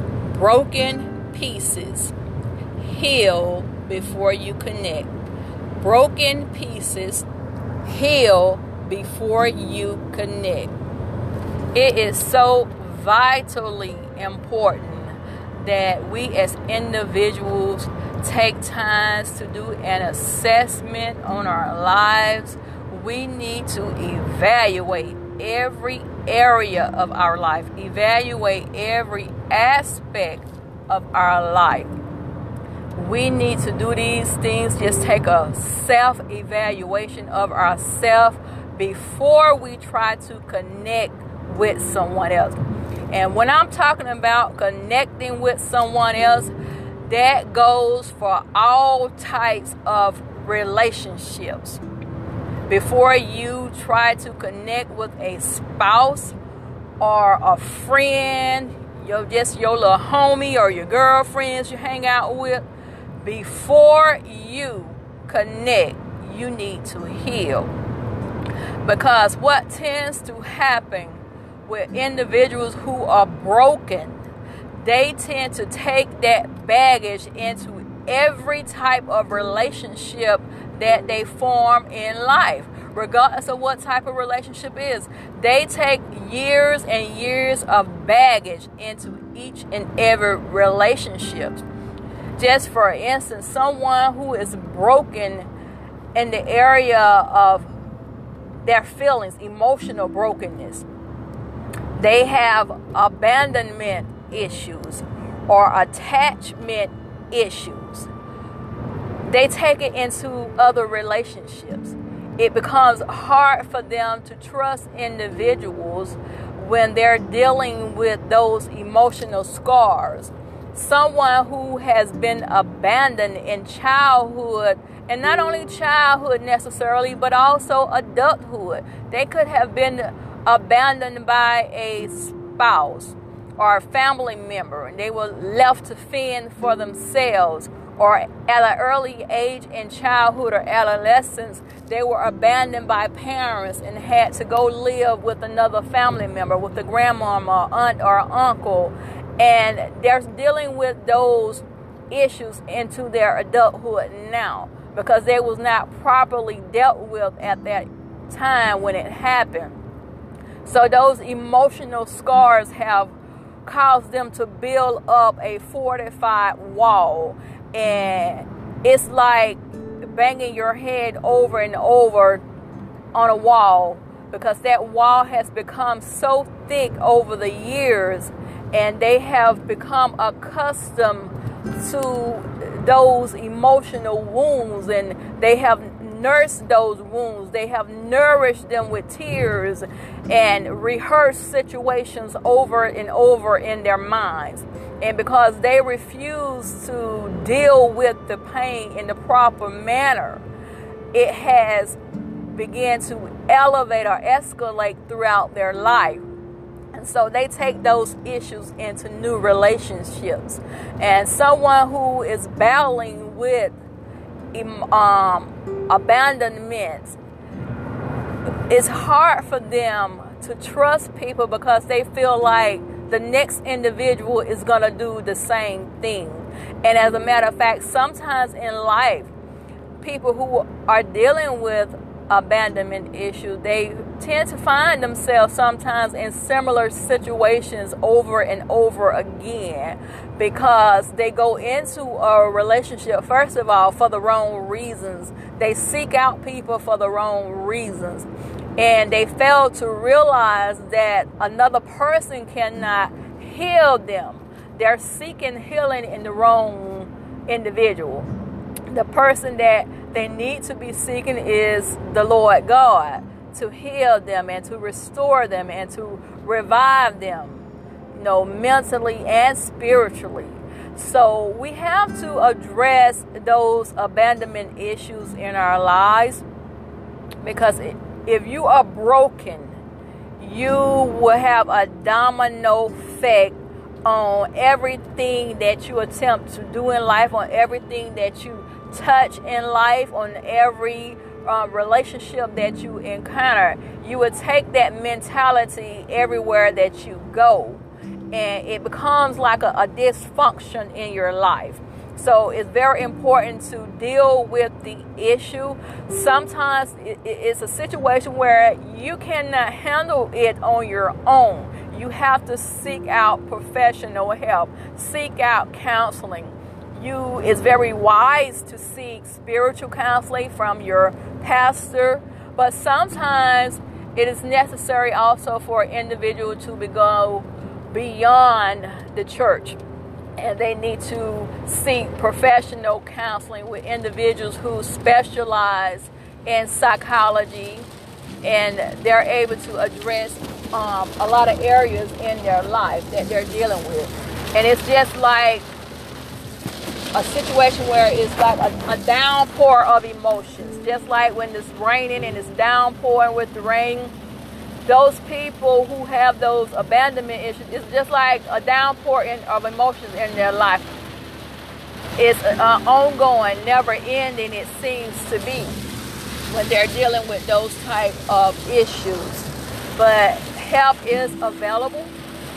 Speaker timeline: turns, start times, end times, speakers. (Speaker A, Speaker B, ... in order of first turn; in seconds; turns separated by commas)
Speaker A: 0.3-2.1, Speaker A: 2.8-5.1, Speaker A: 5.8-7.3, Speaker A: 7.8-10.7, Speaker A: 11.7-31.9, Speaker A: 33.0-42.6, Speaker A: 43.1-46.5, Speaker A: 47.1-51.8, Speaker A: 52.7-56.4, Speaker A: 57.0-62.7, Speaker A: 63.2-67.7, Speaker A: 68.8-74.2, Speaker A: 74.8-91.6, Speaker A: 92.4-95.5, Speaker A: 96.2-97.7, Speaker A: 98.7-100.9, Speaker A: 102.0-108.1, Speaker A: 109.3-159.8, Speaker A: 160.6-172.4, Speaker A: 173.1-200.4, Speaker A: 201.1-202.0, Speaker A: 202.5-206.2, Speaker A: 206.9-213.8, Speaker A: 214.5-217.2, Speaker A: 218.7-229.3, Speaker A: 230.0-258.3, Speaker A: 258.9-276.4, Speaker A: 277.4-279.8, Speaker A: 280.4-329.8, Speaker A: 330.4-337.9, Speaker A: 338.4-345.7, Speaker A: 347.1-354.1, Speaker A: 354.9-360.9, Speaker A: 362.2-365.8, Speaker A: 366.5-372.1